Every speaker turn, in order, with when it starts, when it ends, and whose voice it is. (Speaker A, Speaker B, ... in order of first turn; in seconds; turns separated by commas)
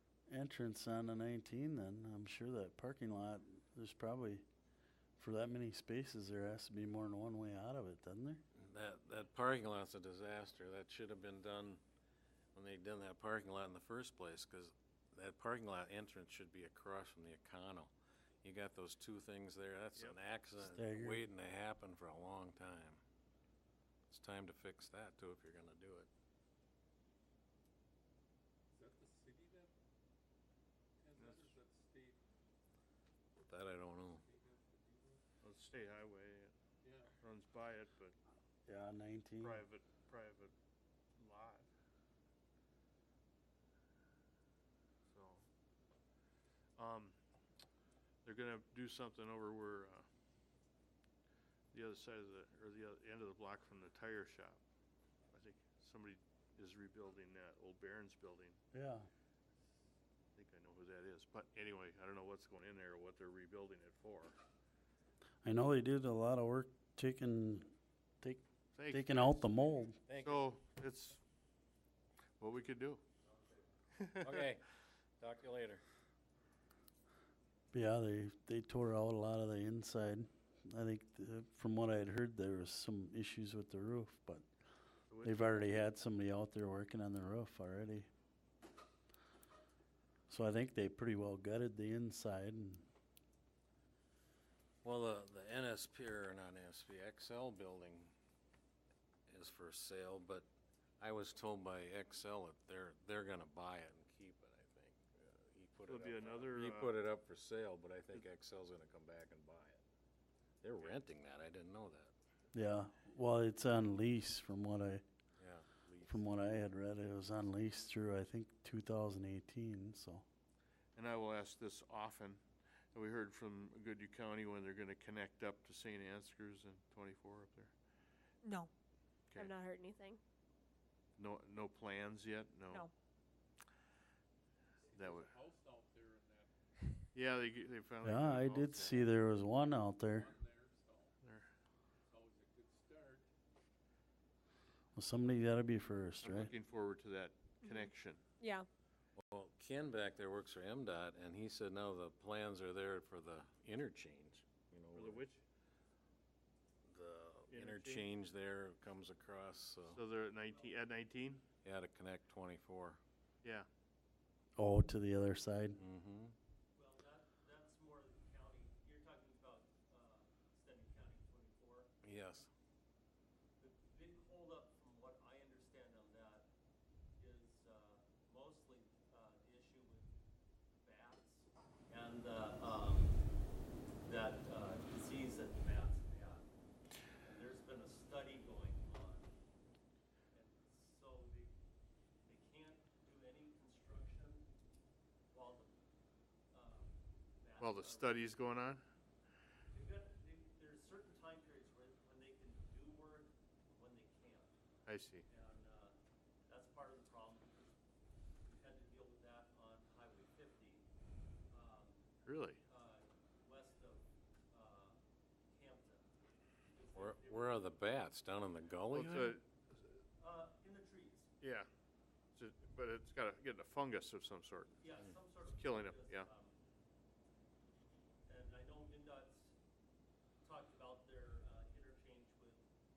Speaker A: 0.3-4.4, Speaker A: 5.2-8.4, Speaker B: 8.5-11.8, Speaker B: 12.5-23.0, Speaker A: 20.6-21.2, Speaker B: 24.1-26.1, Speaker C: 28.7-29.7, Speaker C: 31.0-32.2, Speaker D: 31.1-31.5, Speaker B: 33.4-34.2, Speaker C: 34.1-35.2, Speaker D: 35.4-36.5, Speaker C: 36.8-37.1, Speaker D: 37.2-38.1, Speaker A: 38.6-39.6, Speaker D: 39.4-40.5, Speaker D: 41.1-41.7, Speaker D: 45.1-45.4, Speaker D: 46.8-47.2, Speaker D: 48.2-50.0, Speaker D: 51.7-54.6, Speaker D: 55.3-58.6, Speaker A: 58.7-59.1, Speaker D: 60.3-64.3, Speaker A: 65.4-70.0, Speaker D: 68.7-69.5, Speaker B: 70.1-70.5, Speaker D: 70.2-71.2, Speaker D: 72.4-73.0, Speaker E: 73.3-73.7, Speaker D: 74.0-74.4, Speaker B: 74.2-74.7, Speaker B: 75.2-75.8, Speaker A: 77.7-84.5, Speaker D: 85.1-85.7, Speaker A: 85.2-88.1, Speaker A: 90.3-92.8, Speaker B: 94.8-98.1, Speaker B: 99.3-100.5, Speaker B: 101.0-109.8, Speaker D: 105.8-107.0, Speaker B: 110.6-112.1, Speaker A: 112.5-115.0, Speaker B: 115.4-116.2, Speaker A: 116.0-120.2, Speaker D: 120.9-122.4, Speaker D: 122.9-127.7, Speaker F: 128.4-128.7, Speaker F: 129.3-130.2, Speaker D: 131.2-132.9, Speaker C: 134.8-137.0, Speaker D: 134.9-135.3, Speaker D: 137.1-139.1, Speaker A: 138.0-140.3, Speaker C: 140.0-141.2, Speaker D: 141.2-141.5, Speaker C: 142.1-143.3, Speaker A: 144.9-146.5, Speaker D: 146.2-148.2, Speaker F: 147.6-148.7, Speaker B: 149.2-155.2, Speaker D: 154.9-155.4, Speaker B: 156.8-160.0, Speaker D: 157.5-158.1, Speaker D: 159.9-161.4, Speaker E: 160.5-161.0, Speaker B: 161.6-163.0, Speaker D: 163.4-163.7, Speaker A: 164.6-165.8, Speaker B: 165.8-166.3, Speaker E: 166.7-171.9, Speaker B: 172.0-172.5, Speaker E: 173.6-176.5, Speaker E: 177.2-180.1, Speaker E: 180.8-183.2, Speaker E: 184.0-186.5, Speaker E: 187.2-189.3, Speaker E: 190.3-191.5, Speaker E: 192.2-194.5, Speaker E: 195.3-195.7, Speaker E: 196.5-198.3, Speaker D: 197.6-198.8, Speaker E: 199.7-204.5, Speaker D: 204.9-205.3, Speaker E: 205.3-207.8, Speaker E: 208.4-210.9, Speaker E: 211.5-212.0, Speaker D: 212.2-212.6, Speaker E: 212.7-215.0, Speaker E: 215.5-216.1, Speaker E: 216.7-217.7, Speaker B: 216.9-219.4, Speaker D: 218.9-219.4, Speaker E: 220.2-221.3, Speaker D: 221.4-221.7, Speaker D: 222.3-224.8, Speaker E: 224.8-226.5, Speaker D: 225.4-226.3, Speaker E: 228.3-229.5, Speaker E: 230.4-232.7